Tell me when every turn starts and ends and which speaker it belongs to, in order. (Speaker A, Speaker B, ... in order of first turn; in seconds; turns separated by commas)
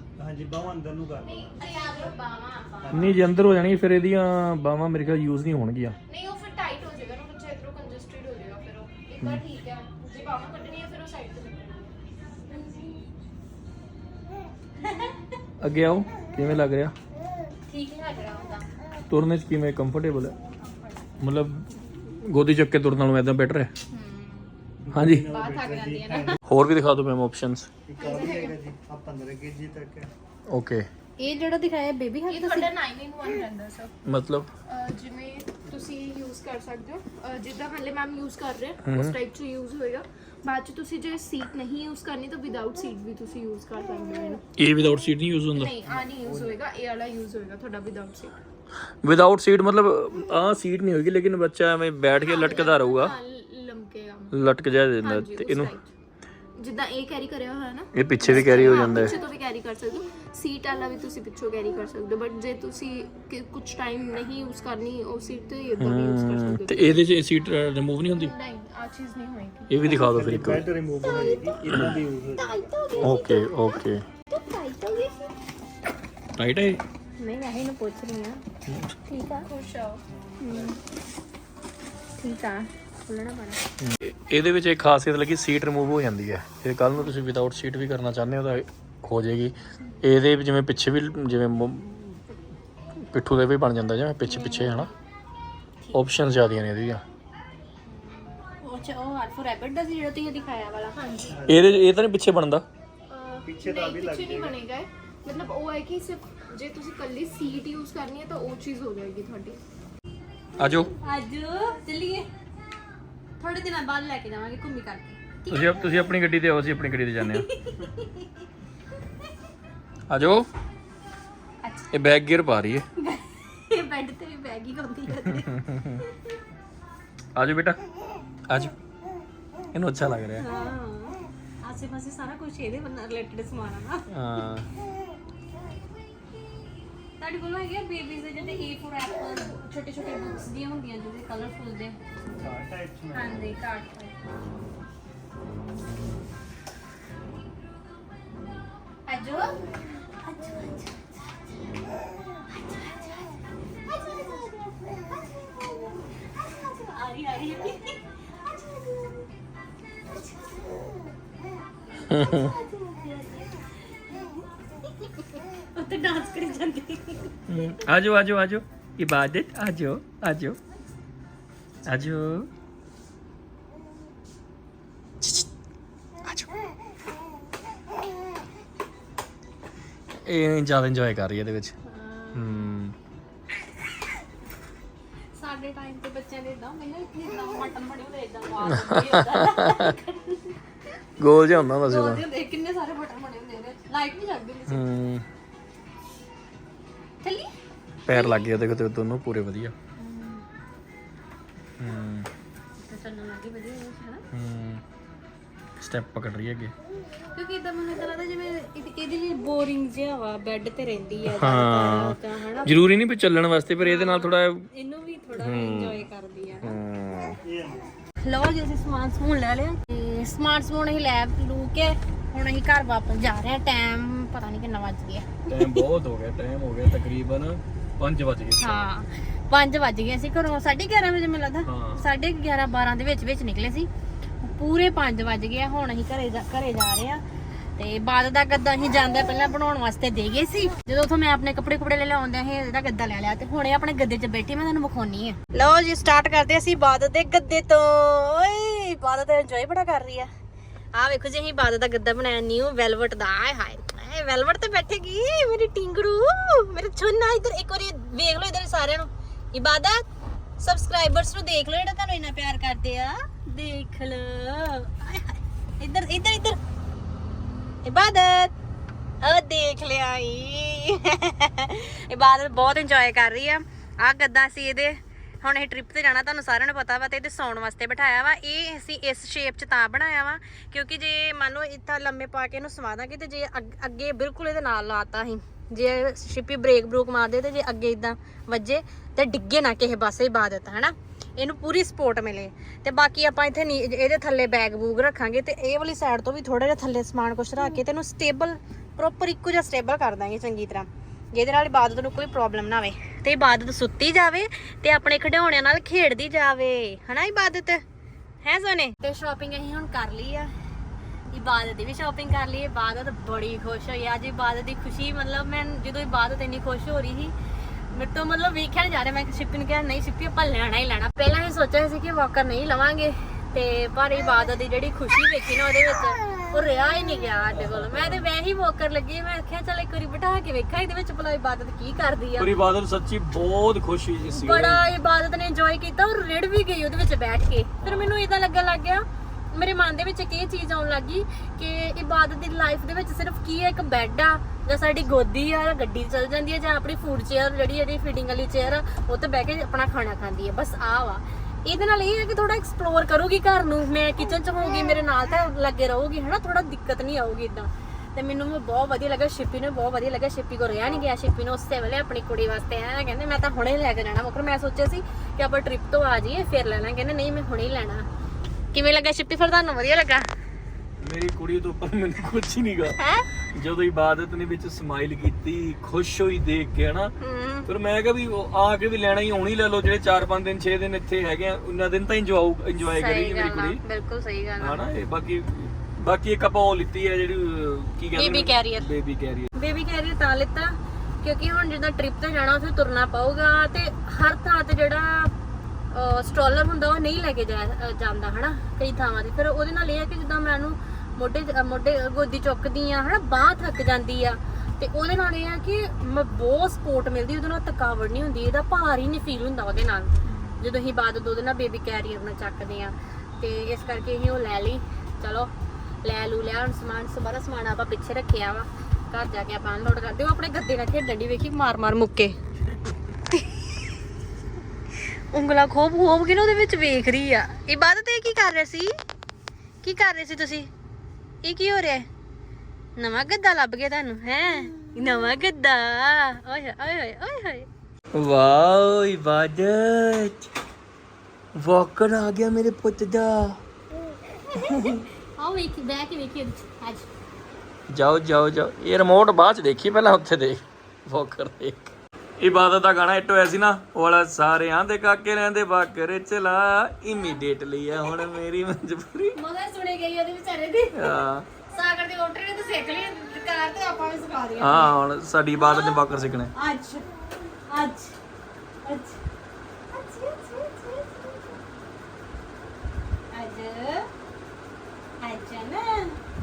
Speaker A: 0.2-1.6, Speaker B: 1.2-2.2, Speaker C: 1.6-3.3, Speaker A: 2.8-3.5, Speaker D: 2.9-6.0, Speaker B: 6.1-12.0, Speaker B: 12.5-13.0, Speaker C: 14.8-15.2, Speaker D: 15.6-16.9, Speaker C: 17.7-18.6, Speaker D: 19.1-20.4, Speaker B: 20.6-21.0, Speaker D: 21.2-21.7, Speaker D: 22.2-23.7, Speaker B: 23.9-24.5, Speaker A: 24.8-26.4, Speaker D: 24.9-25.3, Speaker C: 25.3-26.4, Speaker D: 26.4-27.7, Speaker A: 27.9-30.1, Speaker B: 28.0-28.5, Speaker D: 30.5-30.9, Speaker C: 31.2-32.7, Speaker B: 32.3-33.9, Speaker D: 34.0-34.5, Speaker B: 34.6-44.4, Speaker D: 38.8-39.1, Speaker D: 44.6-45.7, Speaker B: 45.5-48.4, Speaker A: 45.9-46.6, Speaker D: 49.0-53.1, Speaker B: 52.2-54.4, Speaker D: 54.3-55.7, Speaker B: 55.0-55.9, Speaker B: 56.5-67.0, Speaker D: 57.9-59.1, Speaker C: 58.3-59.1, Speaker D: 65.8-68.3, Speaker B: 68.1-69.9, Speaker D: 69.7-70.7, Speaker A: 69.8-72.7, Speaker C: 71.0-71.6, Speaker D: 71.6-72.0, Speaker C: 72.3-75.3, Speaker D: 73.0-74.0, Speaker D: 76.3-76.8, Speaker C: 77.2-78.4, Speaker D: 78.7-78.9, Speaker C: 79.1-79.5, Speaker B: 79.4-80.0, Speaker A: 80.1-80.8, Speaker C: 80.4-80.8, Speaker C: 82.2-83.6, Speaker D: 83.8-92.2, Speaker D: 93.1-94.9, Speaker C: 94.3-94.9, Speaker D: 95.9-97.0, Speaker C: 97.9-101.3, Speaker A: 101.3-101.7, Speaker D: 101.5-102.7, Speaker B: 103.1-109.6, Speaker A: 103.4-104.5, Speaker D: 110.6-110.9, Speaker C: 110.9-112.3, Speaker C: 113.4-116.1, Speaker D: 115.5-117.5, Speaker C: 117.2-118.3, Speaker D: 120.1-120.5, Speaker C: 121.6-121.9, Speaker D: 121.9-122.9, Speaker C: 123.0-126.1, Speaker D: 125.3-126.0, Speaker D: 127.3-127.8, Speaker D: 128.5-128.7, Speaker D: 129.7-130.4, Speaker C: 130.4-134.1, Speaker D: 134.1-134.7, Speaker C: 137.2-142.0, Speaker A: 142.4-143.4, Speaker C: 143.1-144.2, Speaker C: 149.1-151.8, Speaker C: 152.5-159.2, Speaker C: 160.1-161.0, Speaker C: 162.0-167.4, Speaker D: 162.1-162.5, Speaker D: 167.5-170.6, Speaker D: 171.8-172.5, Speaker D: 175.2-175.5, Speaker D: 176.2-176.5, Speaker D: 180.2-181.8, Speaker C: 181.8-182.7, Speaker D: 182.3-182.9, Speaker C: 185.3-190.6, Speaker D: 188.7-189.9, Speaker D: 191.2-192.2, Speaker C: 191.8-194.9, Speaker D: 194.7-195.2, Speaker C: 197.2-197.5, Speaker D: 198.1-199.7, Speaker C: 198.1-198.5, Speaker C: 200.0-200.4, Speaker D: 201.8-202.3, Speaker C: 202.8-204.2, Speaker D: 204.3-204.8, Speaker D: 205.8-206.7, Speaker C: 207.3-212.7, Speaker D: 211.3-214.7, Speaker C: 213.8-216.7, Speaker D: 215.3-216.0, Speaker D: 216.6-217.4, Speaker A: 217.4-217.9, Speaker C: 218.2-225.8, Speaker D: 225.5-228.9, Speaker C: 228.6-233.9, Speaker D: 231.7-232.0, Speaker C: 234.4-237.2, Speaker C: 237.8-250.3, Speaker C: 250.9-260.0, Speaker C: 260.6-266.6, Speaker C: 267.8-268.5, Speaker C: 269.2-307.8, Speaker C: 308.4-310.5, Speaker C: 311.3-317.3, Speaker C: 317.9-332.5, Speaker D: 327.5-328.3, Speaker D: 332.4-334.8, Speaker C: 334.3-368.1, Speaker D: 337.8-338.1, Speaker C: 368.7-370.3, Speaker D: 371.0-373.0, Speaker C: 373.0-373.2, Speaker D: 373.5-377.1, Speaker C: 377.2-377.7, Speaker D: 377.6-383.8, Speaker C: 382.8-384.8, Speaker D: 384.6-389.5, Speaker C: 388.1-388.9, Speaker C: 389.5-395.3, Speaker C: 395.9-415.5, Speaker C: 416.0-422.4, Speaker C: 423.3-423.9, Speaker C: 425.0-428.9, Speaker C: 429.8-430.7, Speaker C: 431.4-432.1, Speaker C: 433.0-437.6, Speaker D: 438.1-440.5, Speaker D: 441.6-443.6, Speaker C: 444.3-447.1, Speaker D: 444.6-445.0, Speaker D: 447.9-459.4, Speaker C: 459.3-464.9, Speaker D: 460.9-461.5, Speaker D: 464.6-466.5, Speaker C: 465.5-466.0, Speaker C: 466.5-468.2, Speaker C: 468.8-469.2, Speaker C: 469.9-471.6, Speaker C: 473.3-474.1, Speaker C: 475.2-476.2